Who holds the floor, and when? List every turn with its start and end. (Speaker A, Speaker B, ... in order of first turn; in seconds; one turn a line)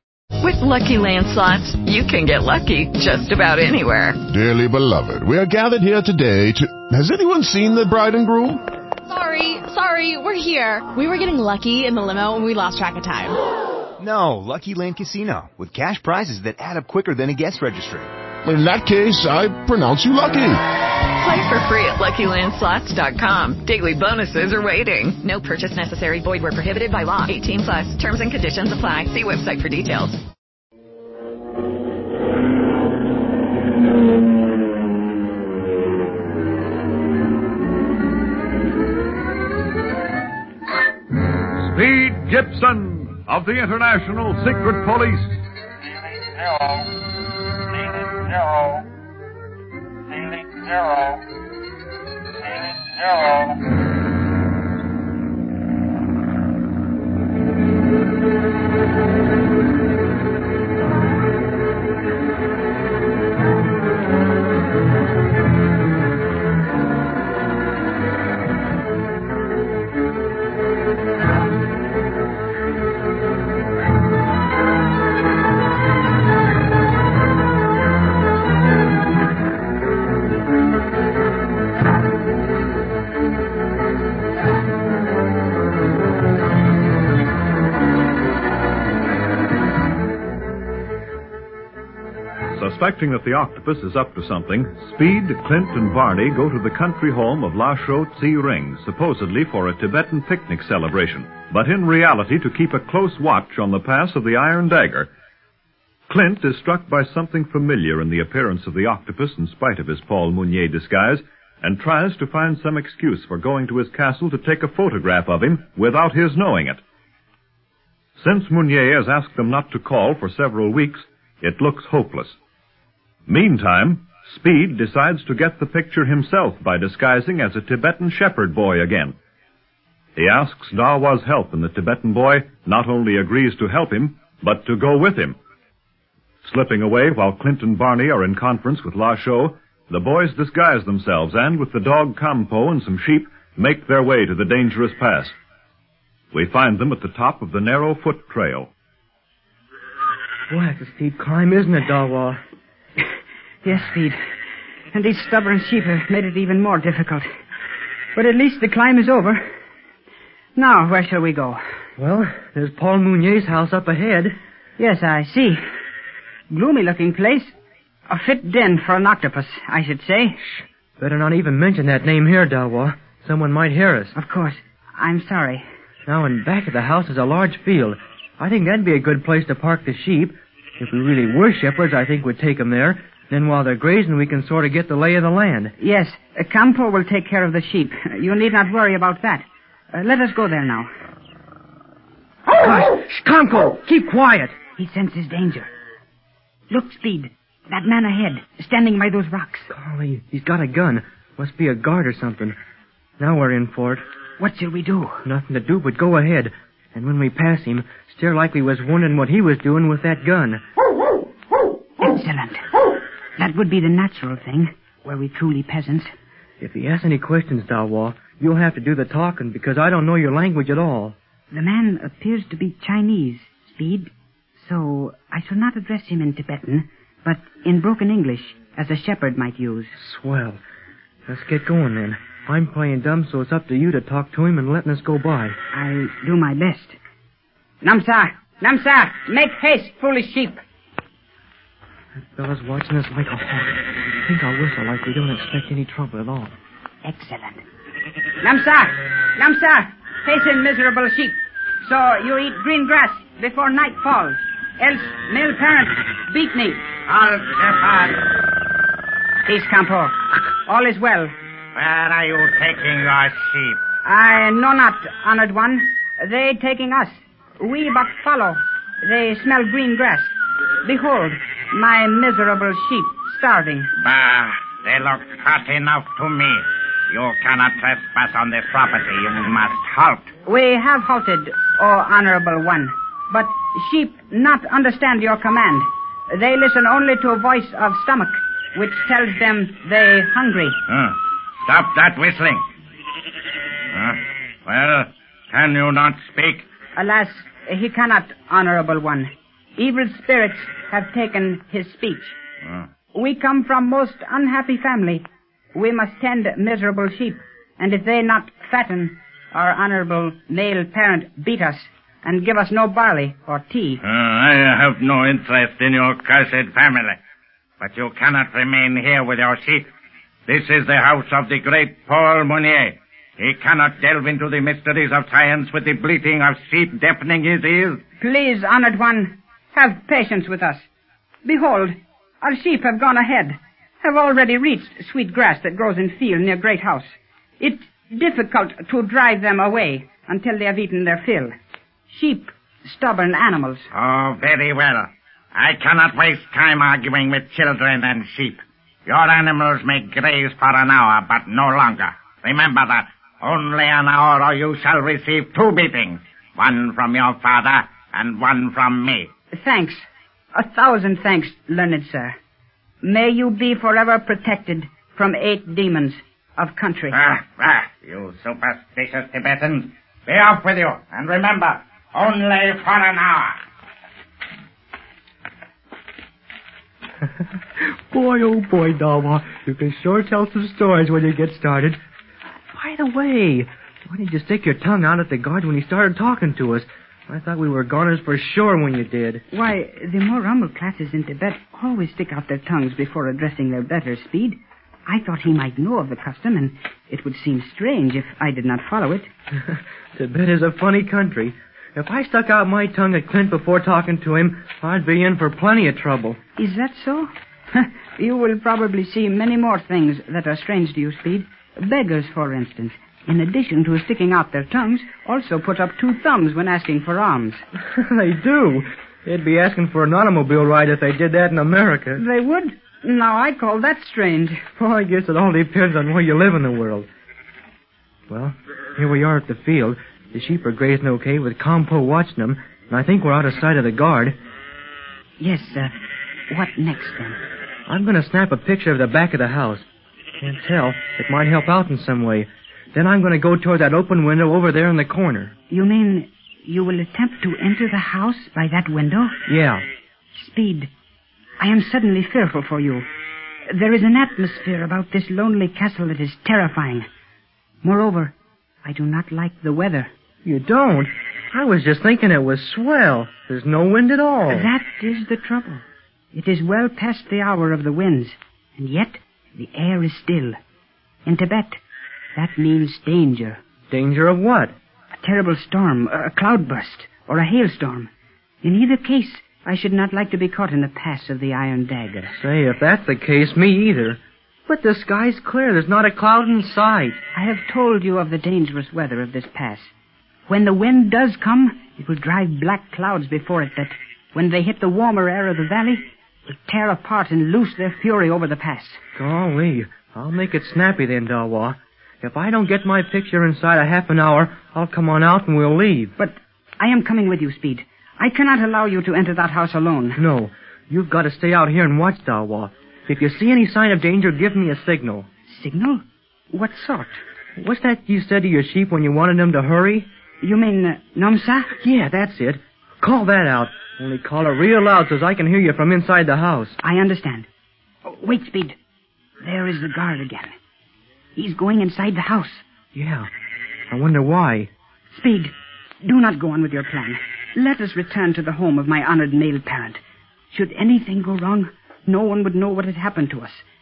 Speaker A: 0.4-4.2
Speaker B: 4.3-8.6
Speaker C: 9.1-13.3
Speaker D: 14.0-18.1
Speaker B: 18.4-20.6
Speaker A: 21.2-30.2
Speaker E: 41.6-45.3
Speaker E: 92.5-105.1
Speaker E: 106.1-116.8
Speaker E: 118.2-122.4
Speaker E: 123.3-129.1
Speaker E: 130.2-135.4
Speaker E: 136.4-145.3
Speaker E: 146.3-148.7
Speaker F: 150.5-152.4
Speaker G: 153.6-154.2
Speaker G: 154.9-157.2
Speaker G: 158.1-159.4
Speaker G: 160.5-161.6
Speaker F: 162.0-164.3
Speaker G: 164.8-165.6
Speaker G: 166.5-167.5
Speaker G: 168.1-170.4
Speaker F: 171.0-174.1
Speaker G: 174.1-175.6
Speaker F: 176.1-185.7
Speaker G: 185.8-190.9
Speaker F: 192.6-194.6
Speaker G: 194.7-195.7
Speaker G: 196.7-199.7
Speaker F: 199.7-202.6
Speaker F: 203.2-204.0
Speaker G: 204.4-205.2
Speaker F: 205.2-210.6
Speaker G: 212.0-212.7
Speaker G: 213.4-216.1
Speaker F: 216.6-221.1
Speaker G: 221.5-229.9
Speaker F: 230.0-230.6
Speaker F: 231.3-235.6
Speaker G: 235.7-237.0
Speaker G: 237.8-240.6
Speaker F: 242.3-246.6
Speaker G: 247.0-247.6
Speaker G: 248.4-256.9
Speaker H: 257.1-258.2
Speaker G: 259.4-261.3
Speaker H: 261.8-263.8
Speaker G: 264.0-273.9
Speaker H: 274.0-280.3
Speaker G: 280.4-290.8
Speaker H: 290.9-292.6
Speaker H: 293.9-296.6
Speaker G: 296.9-302.4
Speaker G: 303.1-314.0
Speaker H: 314.1-317.2
Speaker H: 317.8-319.9
Speaker H: 320.5-328.0
Speaker G: 328.2-330.9
Speaker G: 331.4-341.5
Speaker G: 342.1-343.9
Speaker H: 343.9-359.3
Speaker G: 359.5-362.3
Speaker G: 363.0-367.2
Speaker H: 367.1-373.6
Speaker F: 377.8-382.0
Speaker F: 382.7-389.4
Speaker G: 389.5-399.3
Speaker F: 399.7-406.4
Speaker G: 406.6-417.6
Speaker F: 417.9-422.2
Speaker G: 422.2-424.6
Speaker F: 424.8-427.1
Speaker F: 428.3-434.3
Speaker G: 435.4-435.9
Speaker G: 436.5-437.4
Speaker F: 437.9-439.8
Speaker F: 440.4-445.5
Speaker G: 445.7-449.4
Speaker F: 449.5-449.8
Speaker G: 450.3-450.9
Speaker G: 451.6-453.1
Speaker G: 453.7-457.1
Speaker G: 457.8-460.1
Speaker F: 460.4-464.7
Speaker G: 464.5-470.6
Speaker G: 471.2-471.8
Speaker G: 472.4-473.6
Speaker F: 473.9-474.7
Speaker G: 475.1-478.1
Speaker G: 478.6-482.4
Speaker F: 482.4-487.2
Speaker G: 487.3-489.9
Speaker G: 490.5-499.0
Speaker F: 499.2-506.1
Speaker G: 506.2-510.2
Speaker F: 510.2-515.3
Speaker G: 515.5-517.2
Speaker F: 517.6-520.1
Speaker G: 520.4-521.7
Speaker F: 521.8-526.8
Speaker G: 526.8-527.5
Speaker G: 528.0-528.8
Speaker G: 529.4-530.5
Speaker G: 531.4-532.6
Speaker F: 532.9-533.3
Speaker F: 533.9-534.7
Speaker G: 535.1-540.0
Speaker G: 540.5-543.6